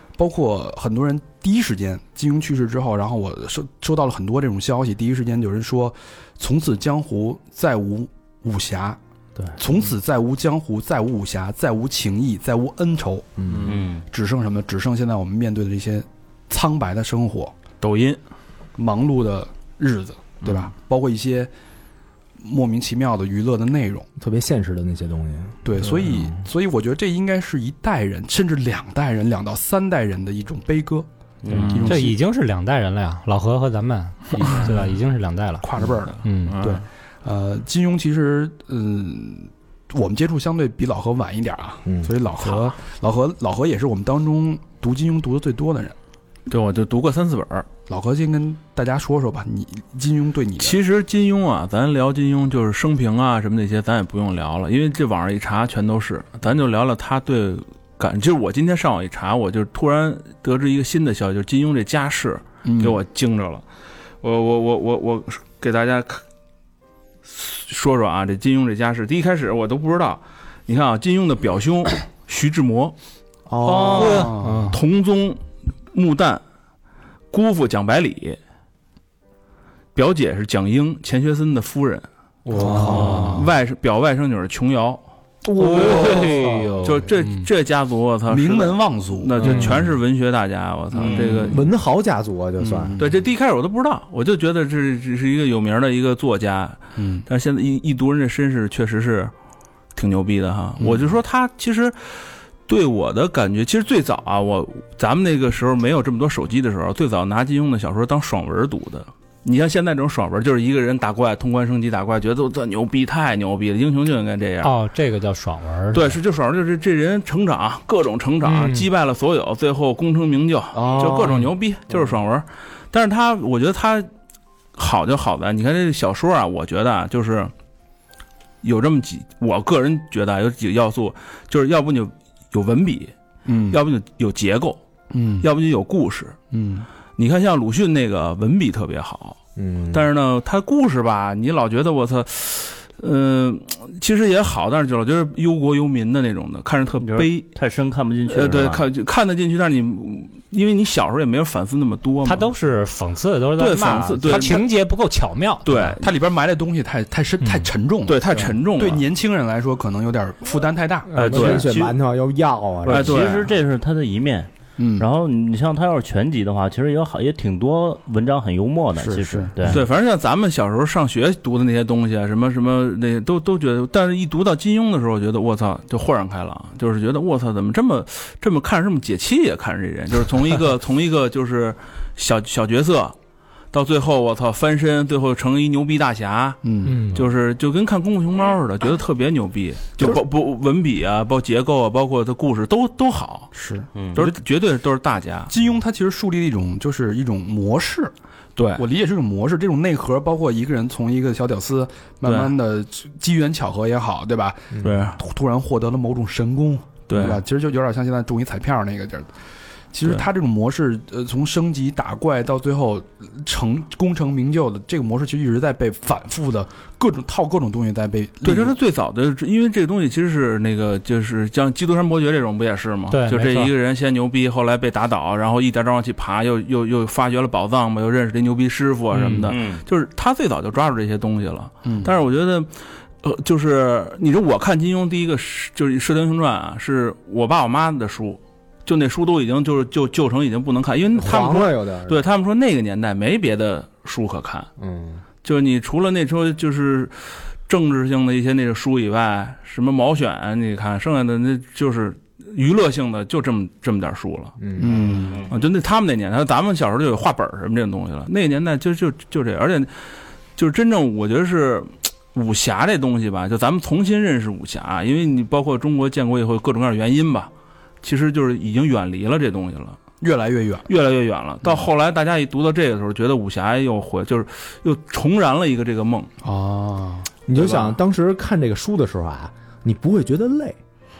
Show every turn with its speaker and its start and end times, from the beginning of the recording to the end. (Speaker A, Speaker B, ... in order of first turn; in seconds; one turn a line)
Speaker A: 0.1-9.0
Speaker A: 9.6-13.3
Speaker B: 13.4-13.8
Speaker C: 13.5-13.8
Speaker D: 13.7-14.0
Speaker A: 14.1-17.5
Speaker C: 17.8-18.2
Speaker A: 18.8-21.5
Speaker A: 22.4-24.1
Speaker B: 24.2-26.4
Speaker A: 25.6-32.2
Speaker D: 31.4-32.0
Speaker E: 31.8-35.6
Speaker A: 34.3-34.8
Speaker A: 35.6-46.0
Speaker E: 36.2-36.5
Speaker C: 36.4-36.8
Speaker B: 41.9-42.1
Speaker C: 46.5-47.7
Speaker A: 47.9-50.8
Speaker C: 50.6-63.6
Speaker A: 62.6-63.0
Speaker C: 64.2-66.2
Speaker C: 67.2-72.9
Speaker B: 73.5-74.3
Speaker A: 73.7-74.7
Speaker E: 73.8-74.8
Speaker C: 74.7-75.4
Speaker C: 75.9-76.4
Speaker C: 77.3-78.4
Speaker C: 79.9-82.1
Speaker B: 82.4-83.5
Speaker A: 82.5-83.5
Speaker C: 82.7-85.0
Speaker E: 82.8-83.4
Speaker B: 85.4-87.1
Speaker E: 85.7-87.5
Speaker C: 85.8-86.1
Speaker C: 86.8-91.7
Speaker A: 88.3-89.9
Speaker B: 89.4-89.8
Speaker A: 90.9-91.6
Speaker D: 91.0-91.5
Speaker B: 91.5-92.9
Speaker A: 92.6-93.2
Speaker C: 93.0-99.3
Speaker A: 97.0-97.2
Speaker C: 99.9-102.0
Speaker A: 100.8-101.1
Speaker C: 102.7-114.7
Speaker E: 114.6-116.2
Speaker C: 115.9-124.1
Speaker E: 118.4-118.9
Speaker B: 120.7-122.1
Speaker C: 124.8-127.5
Speaker C: 128.6-133.1
Speaker A: 133.4-133.8
Speaker C: 133.7-134.8
Speaker A: 135.1-135.5
Speaker C: 135.4-136.3
Speaker A: 136.5-136.9
Speaker C: 137.2-139.4
Speaker B: 139.6-140.1
Speaker C: 139.9-147.5
Speaker D: 147.0-148.8
Speaker C: 148.3-152.5
Speaker E: 152.2-155.9
Speaker C: 153.6-154.6
Speaker A: 154.3-154.5
Speaker C: 155.6-156.1
Speaker A: 156.0-161.1
Speaker E: 157.4-157.7
Speaker C: 158.1-159.0
Speaker B: 161.1-163.3
Speaker D: 161.2-161.9
Speaker C: 161.2-161.7
Speaker D: 162.8-169.8
Speaker C: 162.9-163.5
Speaker A: 164.8-165.1
Speaker A: 168.9-169.8
Speaker C: 169.6-183.1
Speaker C: 183.7-193.5
Speaker A: 186.6-187.2
Speaker E: 186.8-187.2
Speaker A: 193.5-194.4
Speaker D: 193.9-194.2
Speaker C: 194.1-195.5
Speaker A: 195.5-198.1
Speaker C: 198.6-198.8
Speaker A: 198.8-209.3
Speaker C: 202.2-202.6
Speaker B: 204.8-205.0
Speaker C: 204.8-205.2
Speaker C: 207.1-207.4
Speaker A: 209.9-218.8
Speaker C: 218.4-232.7
Speaker E: 223.1-223.7
Speaker D: 229.4-229.8
Speaker A: 231.8-232.1
Speaker C: 233.2-244.7
Speaker B: 241.1-242.2
Speaker B: 244.8-245.2
Speaker C: 245.4-247.1
Speaker C: 247.7-254.6
Speaker B: 254.6-255.0
Speaker A: 254.8-255.4
Speaker D: 254.8-255.5
Speaker C: 255.5-259.9
Speaker C: 260.6-267.5
Speaker C: 268.0-270.0
Speaker A: 270.2-270.9
Speaker C: 270.9-276.3
Speaker A: 276.4-277.3
Speaker B: 277.5-280.8
Speaker C: 277.5-278.0